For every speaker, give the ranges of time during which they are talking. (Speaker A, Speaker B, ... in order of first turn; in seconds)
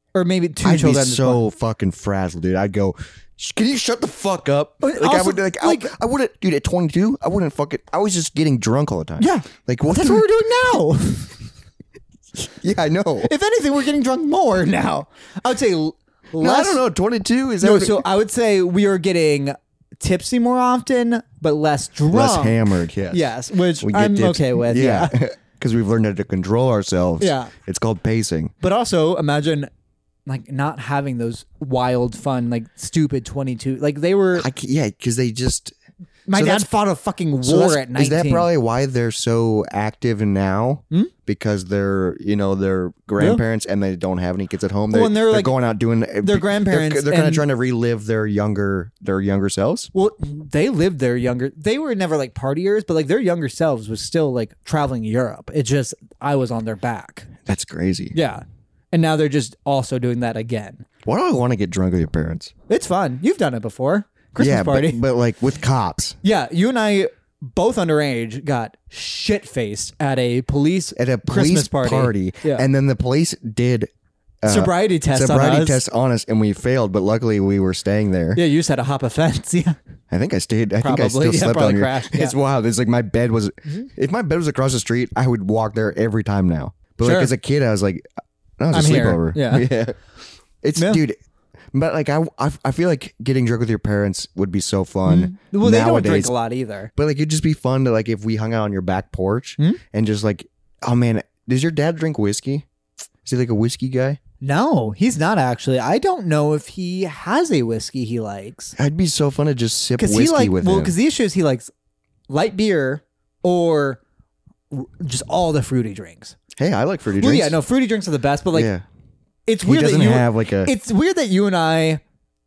Speaker A: 0.1-1.4, 4.8-5.9, 9.2-11.4, 13.2-16.8, 17.6-25.1, 27.2-27.5, 28.6-29.7, 30.3-34.5, 36.3-38.5, 44.9-45.5, 46.2-47.5, 49.9-57.3, 58.1-60.9, 62.7-65.0, 66.2-72.7, 74.5-75.8, 78.3-79.8, 80.8-82.3, 87.0-87.3, 88.7-89.7, 95.1-96.9, 104.4-108.8, 110.0-111.7, 112.3-114.0, 114.7-116.4, 117.2-118.7, 119.5-122.0
Speaker B: 0.6-10.3, 12.4-13.3, 16.4-18.1, 22.1-23.3, 23.8-28.5, 34.4-35.8, 36.3-36.7, 37.4-49.9, 57.5-58.1, 61.0-62.5, 64.4-66.2, 71.0-73.9, 74.4-78.4, 80.1-88.0, 88.6-90.0, 90.6-91.2, 91.7-96.3, 97.0-102.7, 103.2-104.2, 108.8-110.9, 116.6-117.6, 118.5-118.8, 119.6-120.7